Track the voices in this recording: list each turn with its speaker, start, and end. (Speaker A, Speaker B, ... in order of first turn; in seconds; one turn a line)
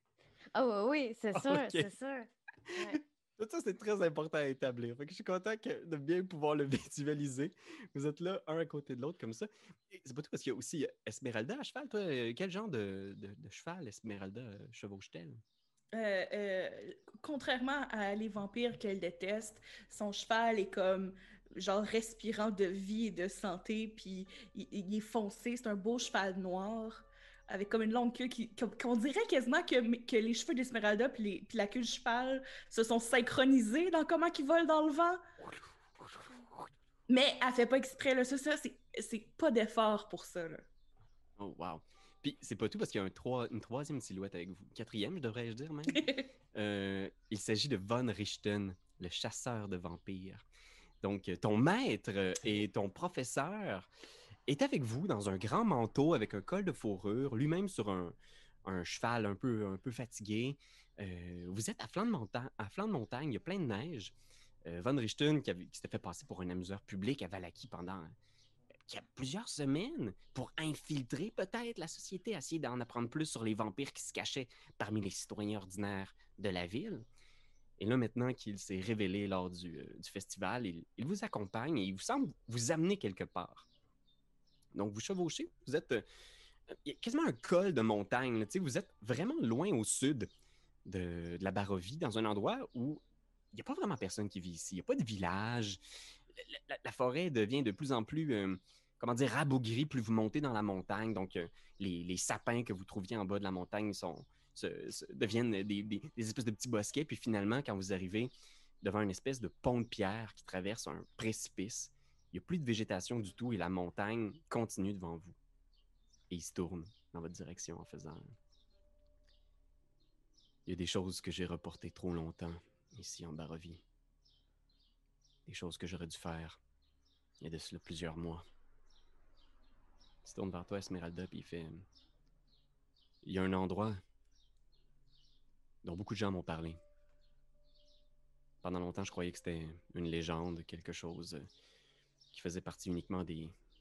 Speaker A: 0.5-3.0
Speaker B: 1.3-1.9
Speaker B: 2.7-15.4
Speaker C: 15.9-35.2
Speaker B: 35.4-36.7
Speaker C: 37.1-40.6
Speaker B: 41.4-50.4
Speaker C: 45.9-46.2
Speaker B: 51.0-53.9
Speaker B: 54.5-64.1
Speaker B: 64.7-68.2
Speaker B: 68.8-77.0
Speaker B: 77.8-83.7
Speaker B: 84.7-86.0
Speaker B: 86.7-90.3
Speaker B: 90.8-93.0
Speaker B: 93.5-95.8
Speaker B: 96.3-115.4
Speaker B: 116.3-118.3
Speaker B: 120.7-123.8
Speaker B: 125.5-126.6
Speaker B: 127.4-128.4
Speaker B: 130.2-131.8
Speaker B: 133.2-134.0
Speaker B: 135.8-136.8
Speaker B: 138.6-141.4
Speaker B: 142.3-143.5